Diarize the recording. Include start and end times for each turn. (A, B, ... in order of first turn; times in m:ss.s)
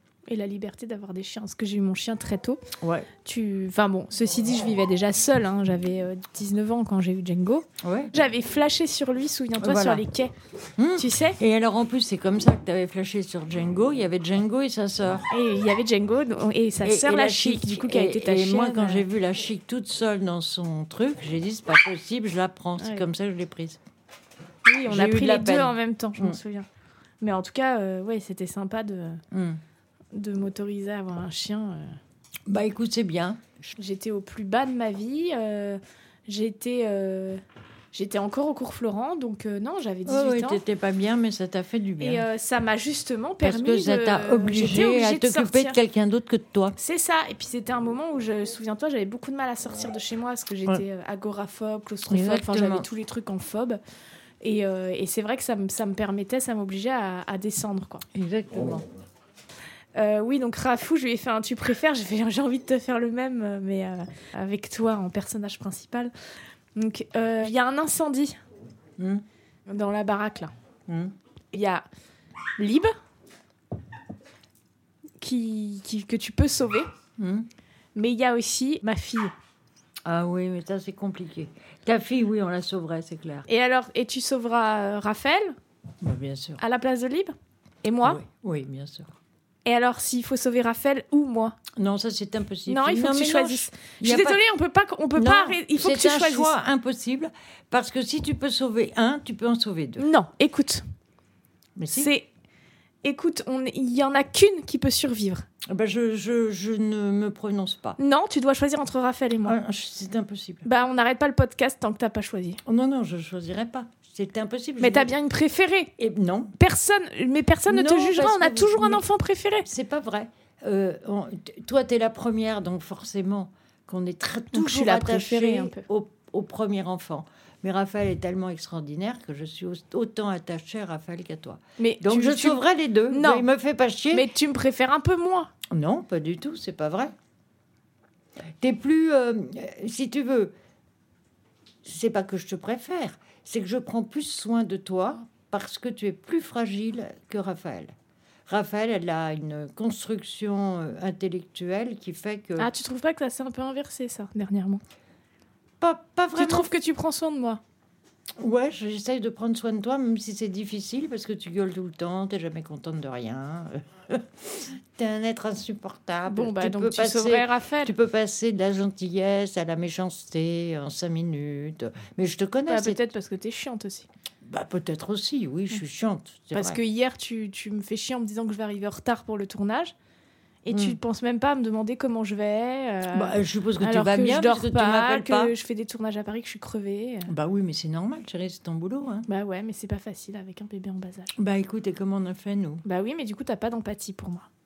0:00.3-0:02.6 A
0:02.8-0:03.1 B
0:03.2-0:10.3 A
0:07.8-0:08.1 B
0:09.6-0:10.0 B
0:10.8-0:15.3 B
0:11.0-0:11.4 A
0:15.3-0:19.1 A
0:16.8-0:23.8 B
0:22.8-0:23.0 A
0:24.7-0:26.7 A
0:24.9-0:26.4 B
0:27.2-0:29.2 A
0:29.3-0:29.6 B
0:30.1-0:32.0 A
0:32.5-0:33.5 B
0:33.8-0:37.4 A
0:37.9-0:40.6 A
0:40.1-0:42.2 B
0:42.0-0:45.8 A
0:43.4-0:46.8 B
0:46.8-0:53.8 A
0:52.1-0:52.9 B
0:54.4-0:58.0 A
0:58.1-0:58.8 B
1:00.0-1:06.1 A
1:06.8-1:08.4 A
1:09.0-1:09.2 B
1:09.7-1:10.5 A
1:10.9-1:11.1 B
1:11.5-1:11.8 A
1:12.6-1:12.9 A
1:15.2-1:16.9 A
1:17.2-1:17.5 B
1:18.0-1:19.3 A
1:20.1-1:23.5 B
1:23.5-1:25.6 A
1:26.0-1:26.6 B
1:26.6-1:28.2 A
1:28.0-1:29.1 B
1:29.6-1:31.6 A
1:31.8-1:34.4 B
1:32.7-1:36.6 A
1:35.2-1:40.1 B
1:40.0-1:40.8 A
1:41.8-1:42.1 B
1:41.9-1:42.3 A
1:43.0-1:45.5 A
1:45.7-1:48.0 B
1:48.0-1:49.6 A
1:49.5-1:50.6 B
1:50.6-1:52.6 A
1:52.6-1:55.1 B
1:54.8-1:55.9 A
1:56.0-1:56.5 B
1:56.6-1:59.7 A
1:57.7-1:59.0 B
1:59.7-2:14.3 B
2:04.5-2:05.8 A
2:11.8-2:13.5 A
2:14.1-2:15.5 A
2:15.7-2:17.1 B
2:18.6-2:20.5 B
2:21.8-2:27.9 B
2:28.5-2:32.7 B
2:32.6-2:34.8 A
2:35.8-2:36.7 B
2:36.4-2:37.6 A
2:38.4-2:53.1 B
2:46.3-2:47.9 A
2:52.7-2:54.1 A
2:54.4-2:56.8 B
2:56.5-2:59.9 A
3:00.6-3:07.3 A
3:00.7-3:01.0 B
3:03.1-3:05.5 B
3:07.3-3:09.3 B
3:09.3-3:11.4 A
3:11.4-3:12.8 B
3:12.8-3:14.5 A